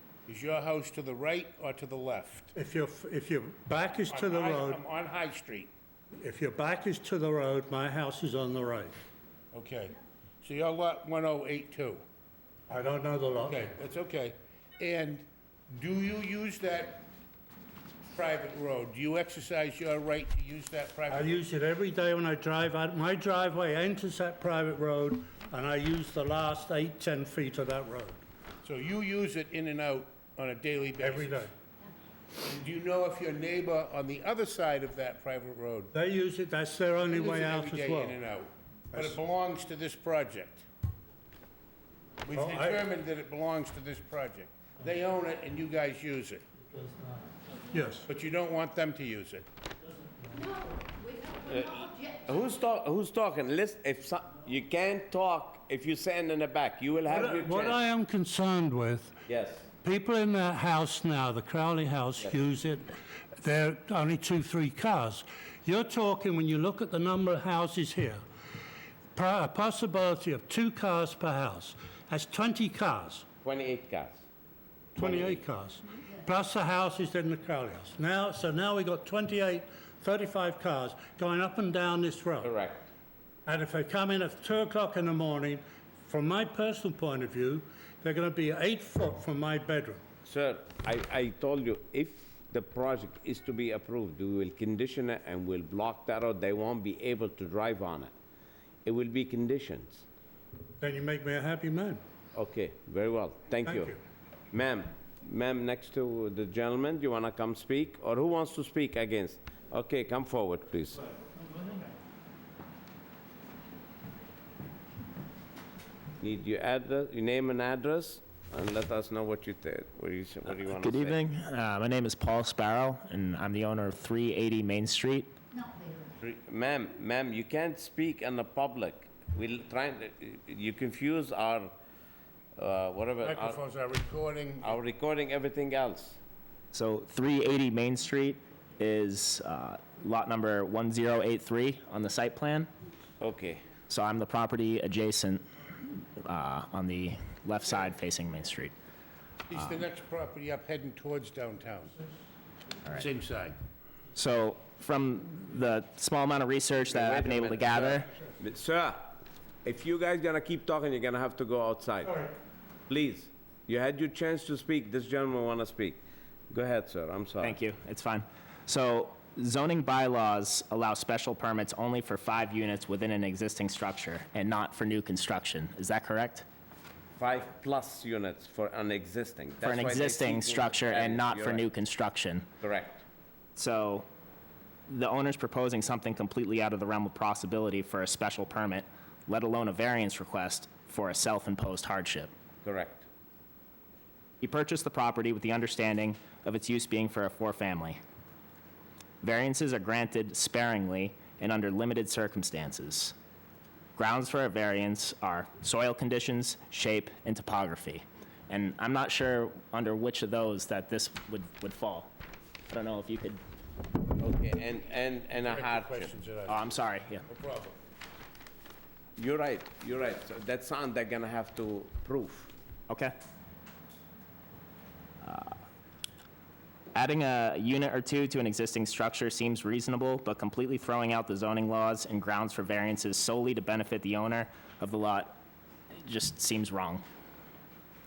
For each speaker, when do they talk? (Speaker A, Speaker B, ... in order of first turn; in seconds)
Speaker A: 0.3-2.5, 4.1-5.7, 9.5-12.0, 13.4-17.1, 18.1-21.4, 28.6-31.5, 32.4-35.9, 37.1-40.7, 42.2-46.4, 48.0-49.5, 133.2-134.8, 149.5-152.1, 152.9-153.6, 215.3-217.8
Speaker B: 2.5-4.8, 6.2-8.9, 12.7-13.7, 21.1-28.2, 31.0-31.5, 35.9-38.2, 42.3-42.8, 46.7-48.0, 57.1-59.2, 59.8-68.2, 69.1-73.2, 75.0-82.5, 83.5-90.0, 100.8-102.0, 103.6-104.0
Speaker C: 51.4-57.8, 59.2-59.7, 73.4-74.2, 75.0-75.4, 82.4-82.8, 90.2-98.1, 98.8-100.0, 102.3-104.0, 104.5-111.1, 116.2-121.2, 126.2-131.7, 132.6-133.6, 134.6-136.2, 143.2-143.6, 156.9-159.1, 159.6-162.3, 162.9-166.0, 166.5-167.6, 177.2-181.7, 182.6-183.0, 192.6-193.1, 214.2-216.1, 219.2-222.5
Speaker D: 120.5-125.3, 136.7-142.7, 143.9-148.7, 154.1-158.1, 167.4-176.4, 179.6-182.5, 183.6-184.1, 184.9-192.3, 194.4-198.0, 199.2-203.1, 203.9-212.1, 212.7-213.4, 216.5-217.3, 225.2-225.5, 226.9-235.4, 236.0-237.0